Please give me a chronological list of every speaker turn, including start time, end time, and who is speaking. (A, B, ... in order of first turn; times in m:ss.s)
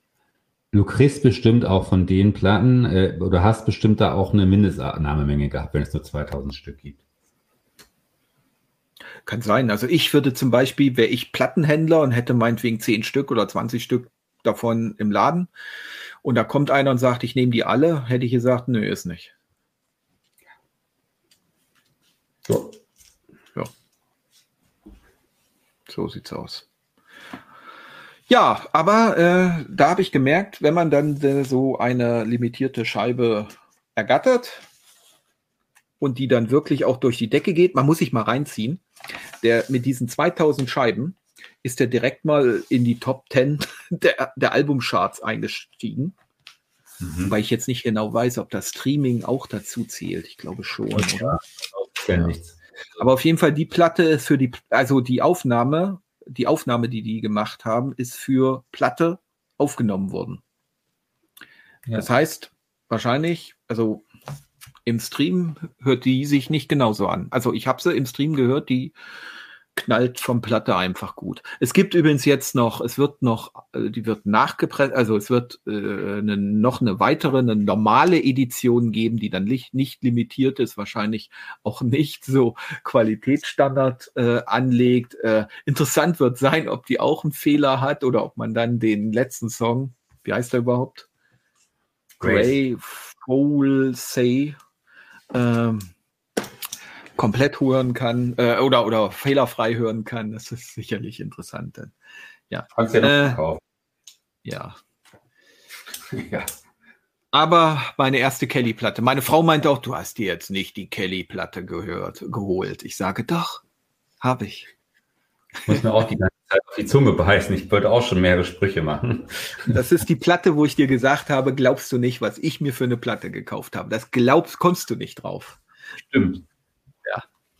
0:00.7-0:07.0 A
0:09.2-0:15.5 B
0:16.2-0:19.3 B
0:22.5-0:22.7 A
0:25.9-0:26.6 B
0:28.3-0:34.6 B
0:36.0-0:38.8 B
0:39.4-0:46.1 B
0:47.0-0:47.4 A
0:47.3-0:51.4 B
0:50.9-0:52.5 A
0:53.0-1:00.4 B
1:01.9-1:04.0 B
1:04.8-1:08.9 B
1:09.8-1:31.1 B
1:32.2-1:32.6 A
1:32.2-1:34.6 B
1:35.3-1:35.9 B
1:37.2-1:41.9 B
1:42.5-1:43.4 B
1:42.7-1:43.6 A
1:44.4-1:44.8 B
1:46.1-1:46.5 A
1:47.3-1:53.6 B
1:54.2-1:54.7 B
1:55.6-1:59.7 A
1:59.7-2:05.6 B
2:06.1-2:06.4 A